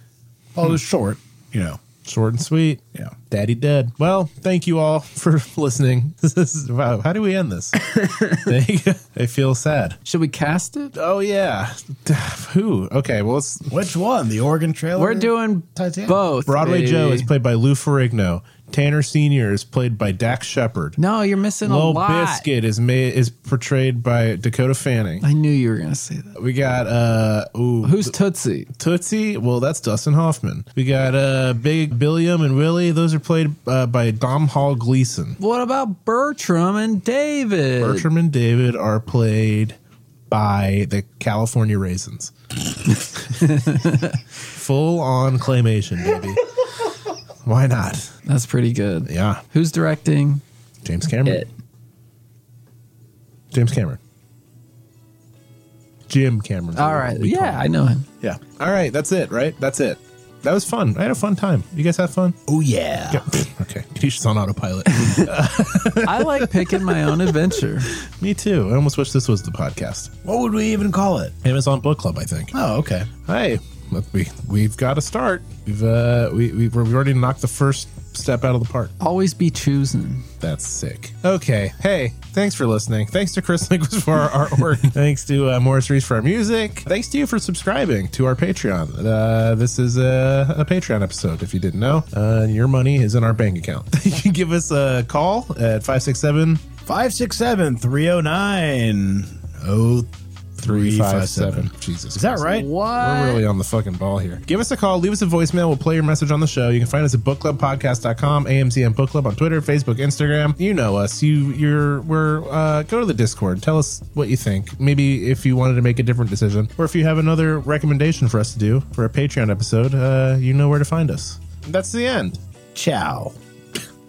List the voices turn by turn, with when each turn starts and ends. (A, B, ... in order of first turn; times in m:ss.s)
0:00.6-0:01.8 A
0:02.0-0:10.0 B
0:08.0-0:08.3 C
0:10.0-0:10.9 C
0:11.0-0:13.7 B
0:13.7-0:16.2 A
0:15.0-0:17.3 C
0:16.5-0:21.0 B
0:21.0-0:22.5 C
0:21.6-0:25.2 B
0:25.2-0:26.4 C
0:26.4-0:28.1 B
0:27.8-0:28.7 C
0:28.8-0:35.4 B
0:35.4-0:38.1 C
0:37.8-0:39.8 B
0:40.3-0:42.3 B
0:43.4-0:44.2 C
0:44.5-0:46.4 B
0:47.4-0:48.1 B
0:48.3-0:50.4 C
0:49.1-0:49.4 B
0:50.8-0:51.4 B
0:53.5-0:54.0 B
0:56.1-0:57.7 B
0:56.8-0:58.1 C
0:58.2-1:02.4 B
1:02.5-1:03.2 A
1:03.1-1:07.2 B
1:05.0-1:05.3 C
1:06.0-1:07.9 C
1:08.2-1:10.1 B
1:10.2-1:11.4 A
1:11.4-1:12.5 B
1:12.5-1:13.1 A
1:13.3-1:18.9 B
1:19.0-1:20.3 C
1:20.4-1:36.6 B
1:36.9-1:42.7 A
1:40.6-2:02.4 B
1:42.5-1:43.4 C
2:02.8-2:03.4 A